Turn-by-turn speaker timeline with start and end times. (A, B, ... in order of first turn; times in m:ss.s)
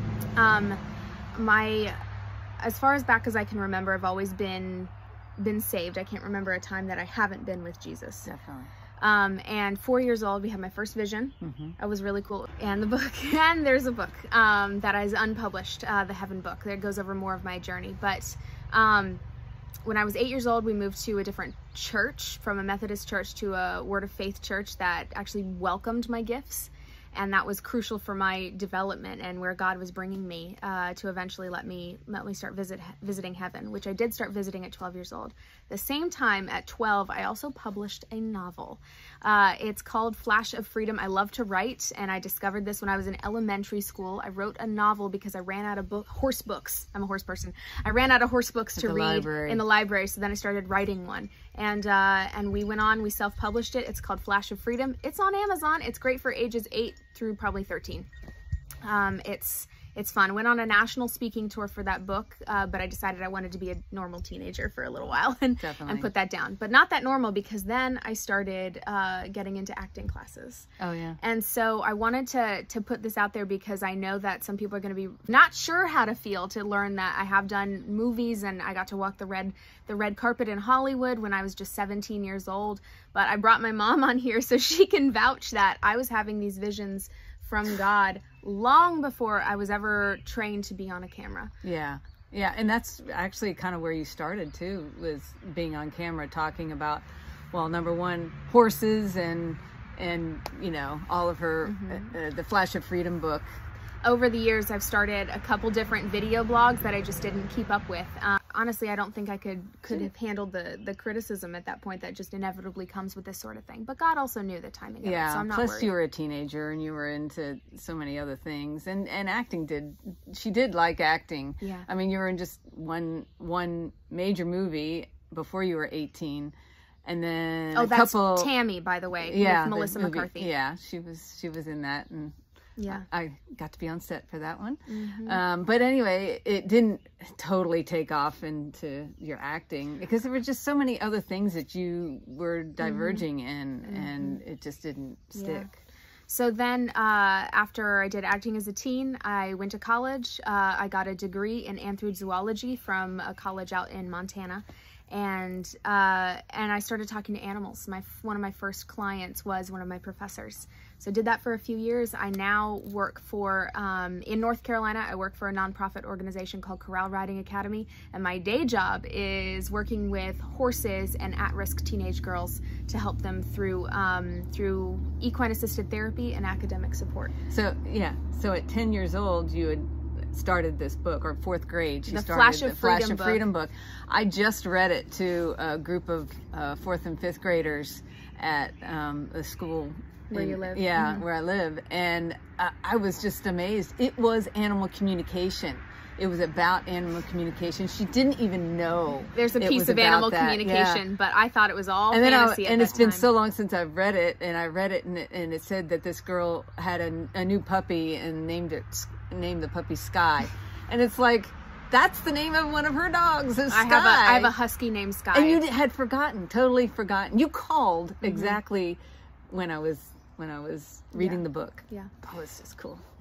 0:00.4-0:00.8 A
0:01.3-0:02.0 A
0:02.6-0:08.3 A
0:08.2-0:08.7 B
0:09.0-0:19.2 A
0:11.4-0:11.8 B
0:19.8-0:58.1 A
0:48.8-0:49.6 B
0:58.8-1:10.7 A
1:05.6-1:06.1 B
1:10.8-1:11.2 B
1:11.2-1:31.5 A
1:31.6-1:43.5 B
1:41.6-1:42.2 A
1:44.0-1:55.9 A
1:55.0-2:06.5 B
2:01.6-2:01.9 A
2:07.0-2:08.5 B
2:07.7-2:10.5 A
2:09.2-2:12.4 B
2:12.8-2:13.1 A
2:12.9-2:25.8 B
2:14.9-2:15.4 A
2:22.8-2:23.2 A
2:23.8-2:24.4 A
2:25.3-2:25.7 A
2:26.3-2:57.3 A
2:57.5-3:21.0 B
3:02.1-3:03.4 A
3:10.3-3:11.2 A
3:19.3-3:23.3 A
3:22.1-3:34.5 B
3:33.7-3:35.6 A
3:35.3-3:43.0 B
3:38.2-3:38.6 A
3:41.2-3:42.1 A